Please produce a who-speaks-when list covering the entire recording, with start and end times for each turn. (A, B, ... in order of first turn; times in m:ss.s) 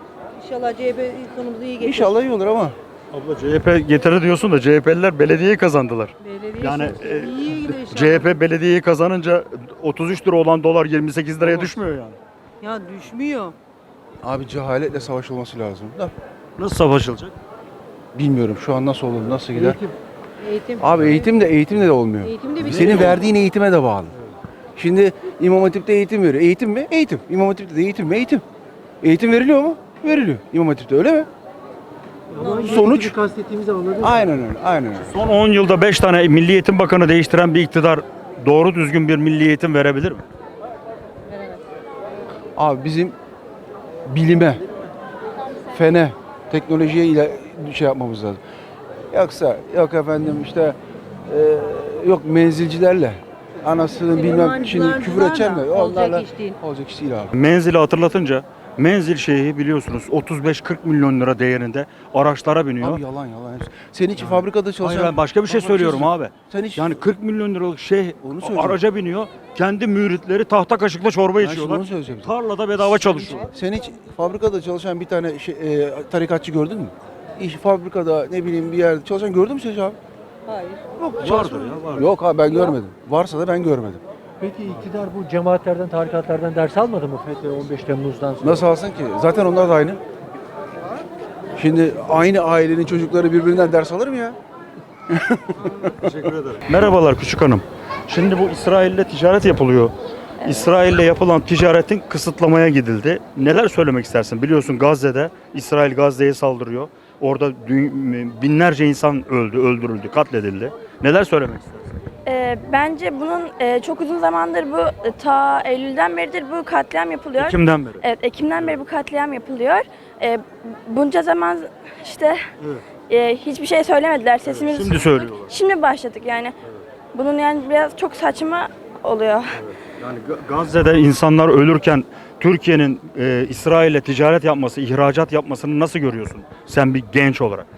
0:00.4-0:02.2 A
0:01.8-0:02.8 B
0:03.1-0:12.2 C
0:06.2-0:08.4 A
0:12.6-0:13.5 A
0:14.2-0:16.1 B
0:16.6-0:17.3 C
0:18.1-0:19.8 B
0:20.4-0:21.5 A
0:20.8-0:24.1 B
0:22.1-0:23.3 A
0:22.6-0:23.2 C
0:24.8-0:28.4 B
0:29.0-0:31.3 B
0:32.3-0:34.3 D
0:32.4-0:33.0 A
0:32.4-0:33.2 B
0:34.0-0:35.1 B
0:35.0-0:40.2 C
0:41.3-0:41.6 A
0:42.6-0:43.1 B
0:44.1-0:44.6 B
0:45.7-0:48.4 B
0:49.1-0:50.8 B
0:51.3-0:57.3 B
0:53.9-0:56.6 A
0:57.3-1:03.0 C
1:02.8-1:07.0 B
1:04.2-1:13.5 C
1:08.2-1:08.8 B
1:11.4-1:20.0 B
1:20.4-1:21.1 A
1:21.2-1:22.1 C
1:21.2-1:24.0 B
1:22.4-1:22.8 A
1:24.4-1:28.7 D
1:28.4-1:30.0 B
1:31.6-1:34.4 B
1:35.1-1:36.1 B
1:35.8-1:51.9 C
1:52.2-2:02.4 E
1:57.4-1:58.0 C
2:03.1-2:06.5 E
2:04.4-2:05.5 C
2:07.1-2:09.6 E
2:09.5-2:17.6 C